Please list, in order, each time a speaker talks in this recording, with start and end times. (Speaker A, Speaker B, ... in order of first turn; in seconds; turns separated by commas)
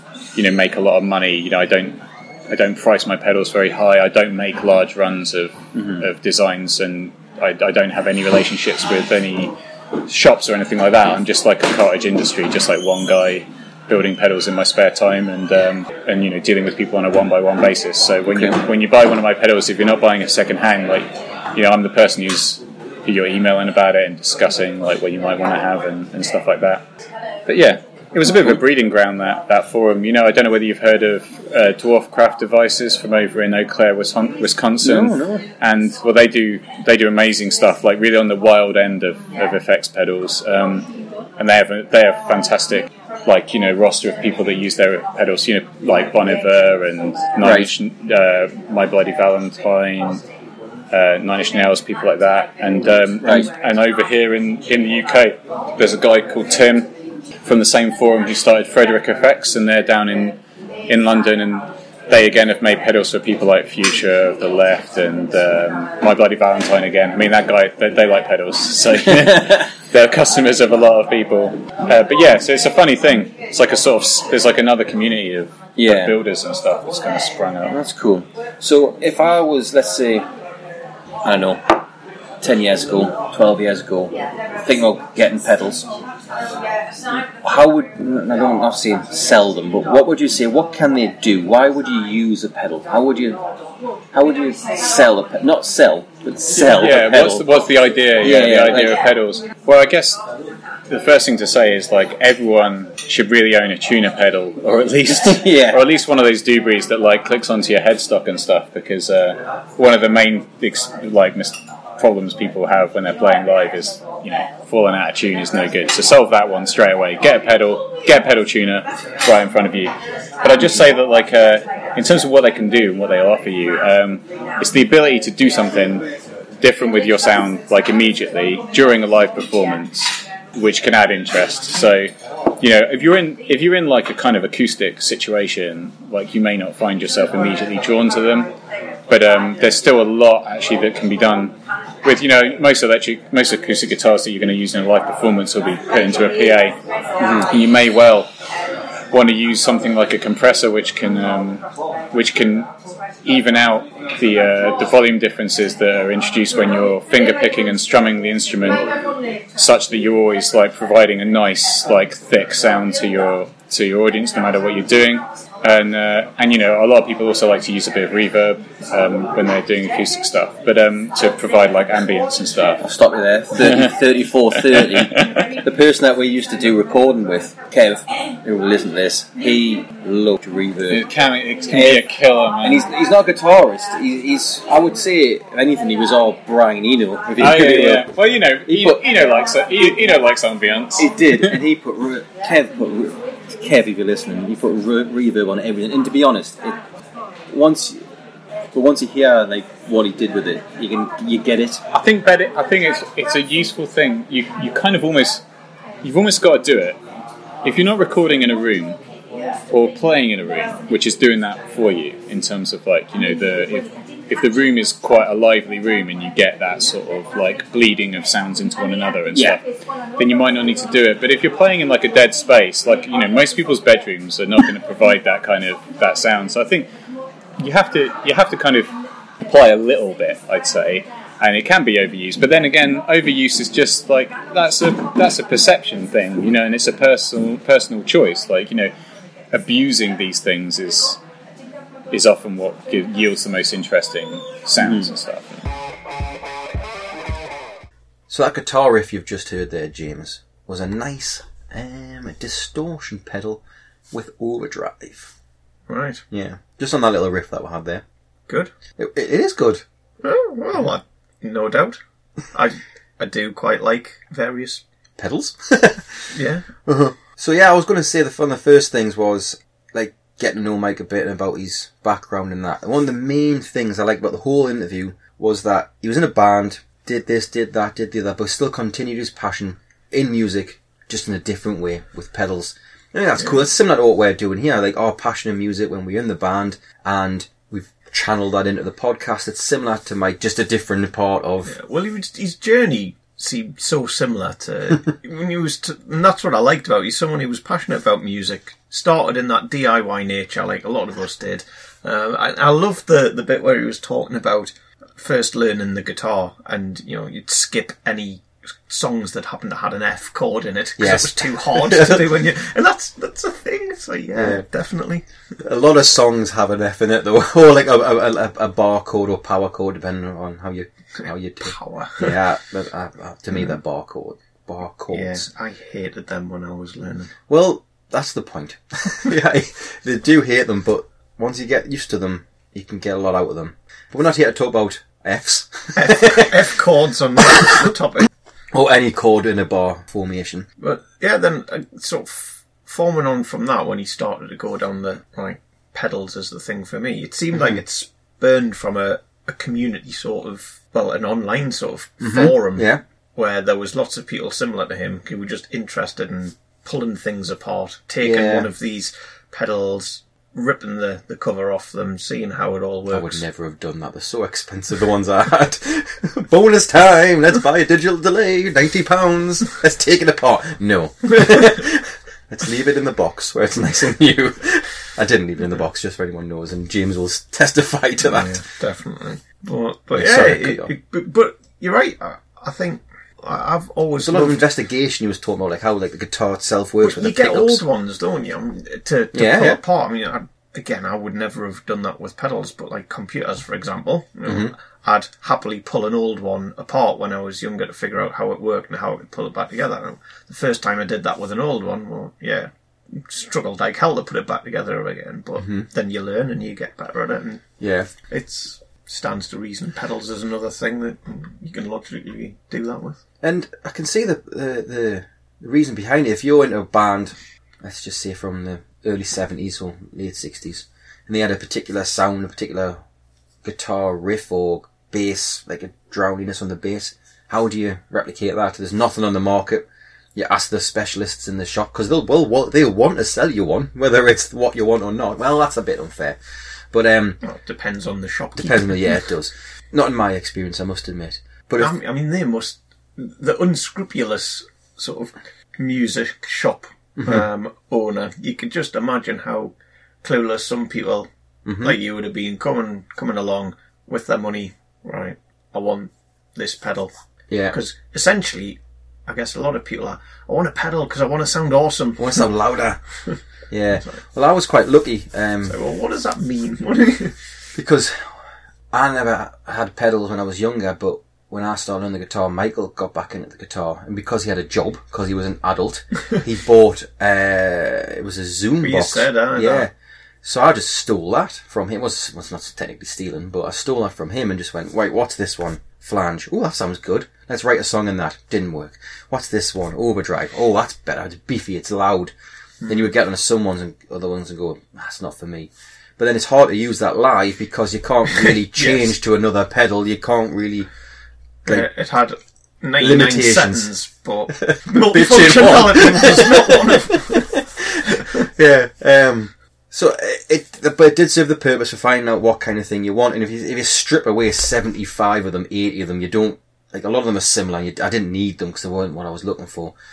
Speaker A: 0.3-26.9, Speaker B: 5.8-6.0, Speaker B: 18.3-18.6, Speaker A: 27.5-50.2, Speaker B: 34.8-35.5, Speaker B: 47.4-47.7, Speaker A: 50.9-56.9, Speaker B: 53.2-53.5, Speaker A: 57.4-77.8, Speaker B: 69.2-69.5, Speaker B: 75.8-76.2, Speaker B: 77.7-80.3, Speaker B: 81.2-81.8, Speaker B: 82.4-85.9, Speaker B: 87.4-93.4, Speaker B: 94.1-97.5, Speaker A: 96.5-100.2, Speaker B: 98.2-99.0, Speaker A: 100.9-126.1, Speaker B: 105.3-105.8, Speaker A: 126.6-138.5, Speaker A: 139.1-146.8, Speaker B: 147.2-147.5, Speaker A: 147.3-148.3, Speaker A: 149.1-152.7, Speaker A: 153.2-158.8, Speaker A: 159.6-172.8, Speaker B: 172.8-181.1, Speaker A: 173.6-173.9, Speaker A: 174.6-175.5, Speaker A: 180.9-182.9, Speaker B: 181.7-182.1, Speaker B: 182.6-188.1, Speaker A: 187.4-191.6, Speaker B: 188.7-189.0, Speaker B: 191.0-196.8, Speaker B: 197.5-198.0, Speaker B: 198.7-201.8, Speaker A: 201.9-205.4, Speaker A: 206.0-207.0, Speaker A: 207.6-209.0, Speaker A: 209.7-219.6, Speaker A: 220.2-226.9, Speaker A: 227.6-238.9, Speaker A: 239.5-241.2, Speaker A: 242.1-245.7, Speaker C: 248.3-255.3, Speaker D: 255.9-256.2, Speaker C: 256.3-258.0, Speaker D: 258.5-258.7, Speaker C: 259.0-259.8, Speaker D: 260.2-262.0, Speaker D: 262.5-264.8, Speaker C: 265.2-291.8, Speaker D: 266.3-266.7, Speaker D: 291.7-315.2, Speaker C: 311.0-312.4, Speaker C: 314.4-314.6, Speaker C: 315.6-325.4, Speaker D: 321.6-322.4, Speaker D: 325.1-327.3, Speaker C: 327.5-336.7, Speaker D: 336.0-338.3, Speaker C: 337.5-337.9, Speaker C: 338.7-340.7, Speaker D: 340.8-363.4, Speaker C: 352.2-353.0, Speaker C: 358.2-358.7, Speaker C: 363.1-378.6, Speaker D: 378.2-384.6, Speaker C: 380.1-380.9, Speaker C: 384.2-387.8, Speaker D: 387.0-407.8, Speaker C: 389.3-389.8, Speaker C: 394.5-394.7, Speaker C: 405.6-405.9, Speaker C: 407.8-408.1, Speaker D: 408.3-413.2, Speaker C: 413.4-423.0, Speaker C: 423.6-436.4, Speaker C: 436.9-437.4, Speaker D: 437.4-439.2, Speaker C: 438.6-441.9, Speaker D: 441.8-451.3, Speaker C: 447.2-447.5, Speaker C: 451.6-452.0, Speaker D: 451.8-457.1, Speaker C: 457.5-457.8, Speaker D: 457.7-462.5, Speaker C: 462.2-463.0, Speaker C: 463.7-465.8, Speaker D: 465.7-467.4, Speaker C: 467.7-492.3, Speaker D: 478.8-479.9, Speaker C: 492.9-500.9, Speaker D: 498.8-499.1, Speaker D: 501.7-507.6, Speaker C: 503.0-503.9, Speaker C: 504.5-520.0